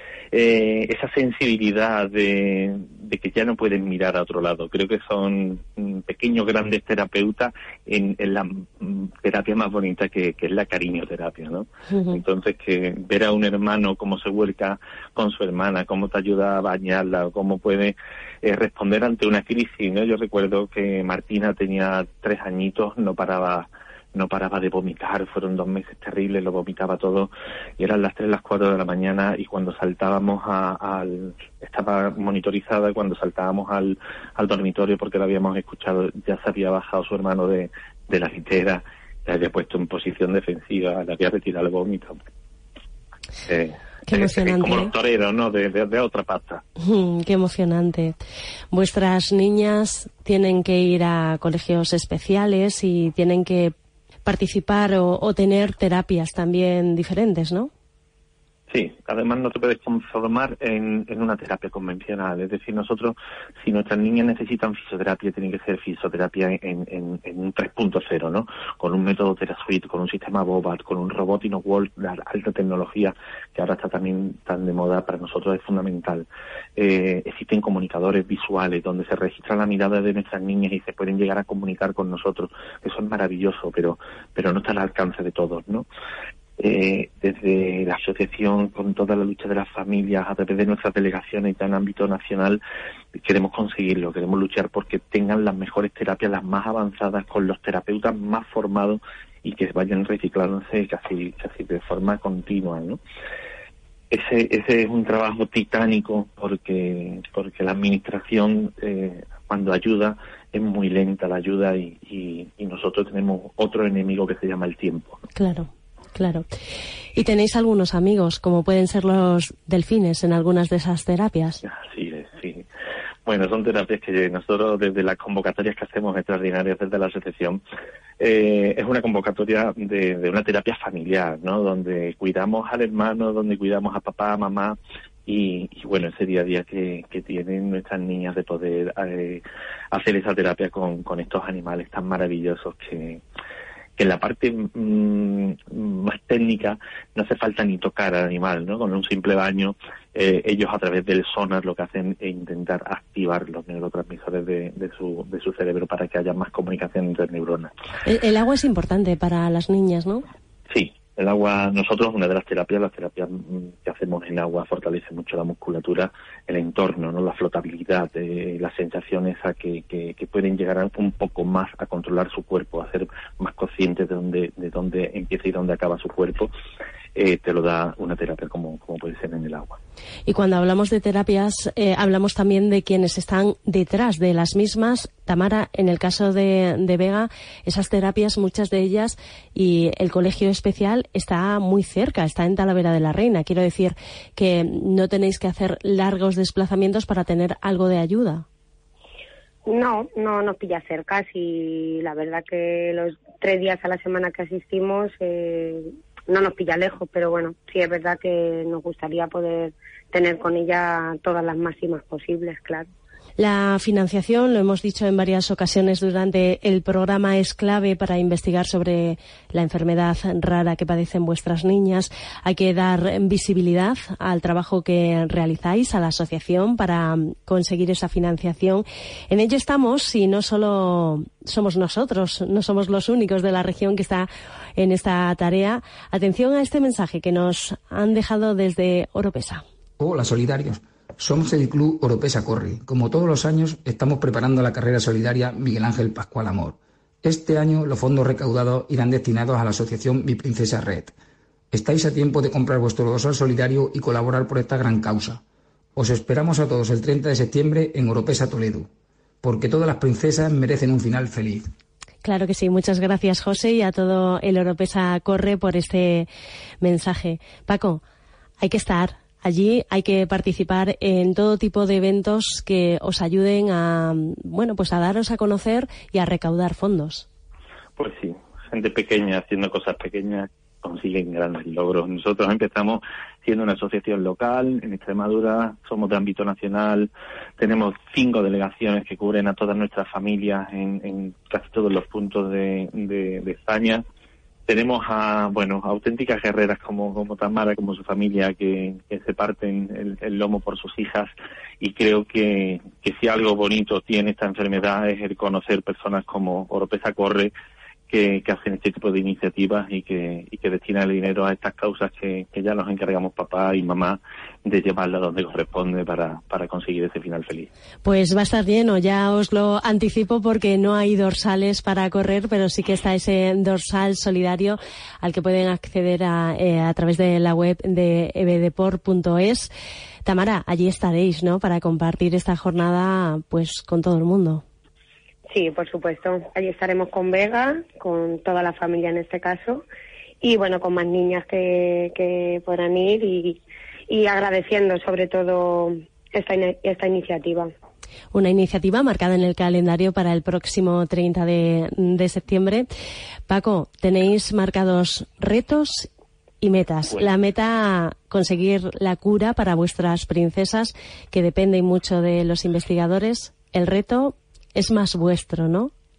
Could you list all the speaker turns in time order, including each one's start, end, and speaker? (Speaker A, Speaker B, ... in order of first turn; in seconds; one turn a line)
Speaker A: 0.3-42.2
Speaker B: 11.9-12.2
Speaker A: 43.5-46.6
Speaker B: 44.1-44.9
Speaker B: 46.8-48.2
Speaker B: 48.7-53.7
Speaker B: 54.3-57.7
Speaker A: 58.7-85.9
Speaker A: 86.6-92.6
Speaker A: 93.2-103.0
Speaker A: 104.1-115.2
Speaker B: 115.4-116.5
Speaker B: 117.2-121.6
Speaker A: 121.6-122.7
Speaker A: 123.3-127.6
Speaker A: 128.2-143.2
Speaker A: 144.0-157.7
Speaker B: 158.1-160.2
Speaker A: 160.7-176.5
Speaker A: 177.2-179.8
Speaker B: 180.3-198.4
Speaker C: 199.7-212.9
Speaker B: 213.4-239.6
Speaker D: 240.0-251.1
Speaker D: 251.7-255.4
Speaker D: 256.0-258.9
Speaker D: 259.4-261.7
Speaker B: 262.2-266.3
Speaker B: 266.8-268.0
Speaker B: 268.6-277.3
Speaker A: 278.0-294.1
Speaker A: 294.7-307.5
Speaker A: 308.1-317.7
Speaker B: 318.1-329.7
Speaker B: 330.2-334.6
Speaker C: 335.5-339.8
Speaker C: 340.4-347.7
Speaker B: 348.3-352.9
Speaker B: 353.5-356.1
Speaker B: 356.6-365.9